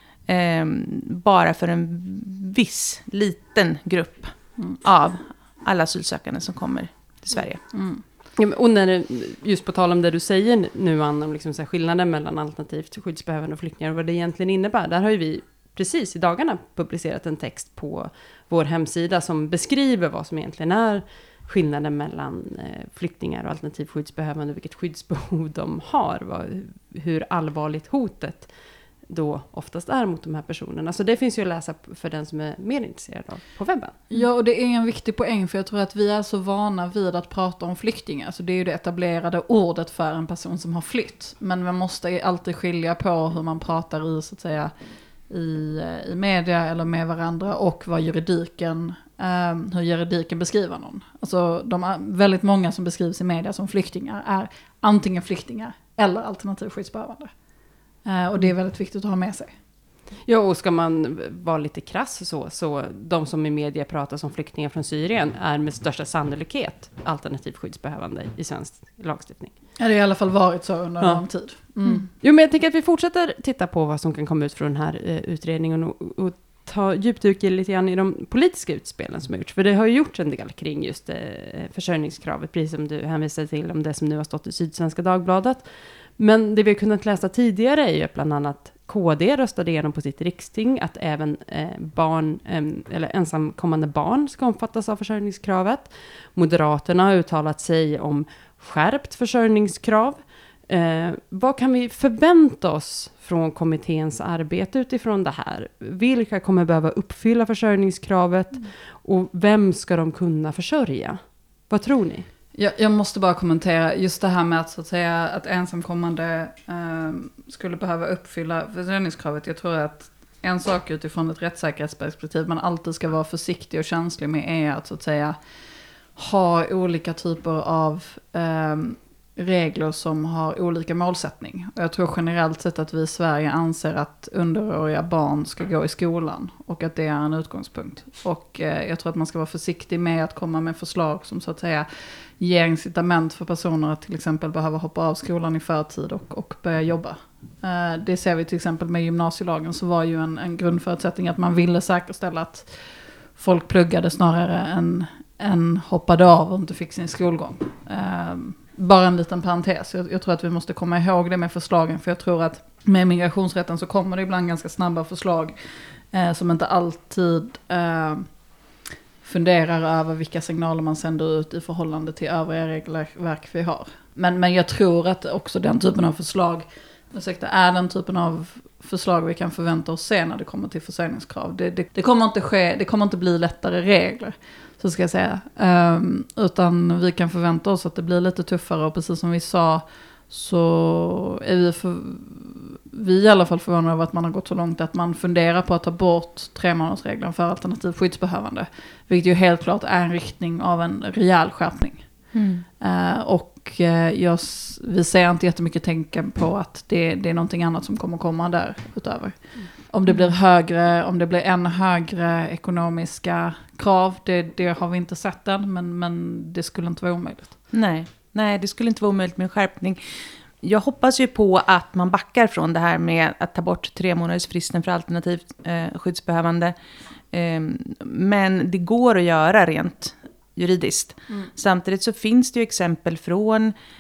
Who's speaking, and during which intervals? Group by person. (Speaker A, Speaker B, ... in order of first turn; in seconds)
Speaker A: 0.3-7.6, 202.3-202.7, 217.7-226.8, 227.3-233.8
Speaker B: 7.7-8.0, 34.1-44.7, 45.3-57.3, 58.0-59.5, 69.8-72.1, 112.5-125.4, 126.1-168.3, 169.2-217.6
Speaker C: 8.4-34.2, 60.2-69.5, 71.0-112.3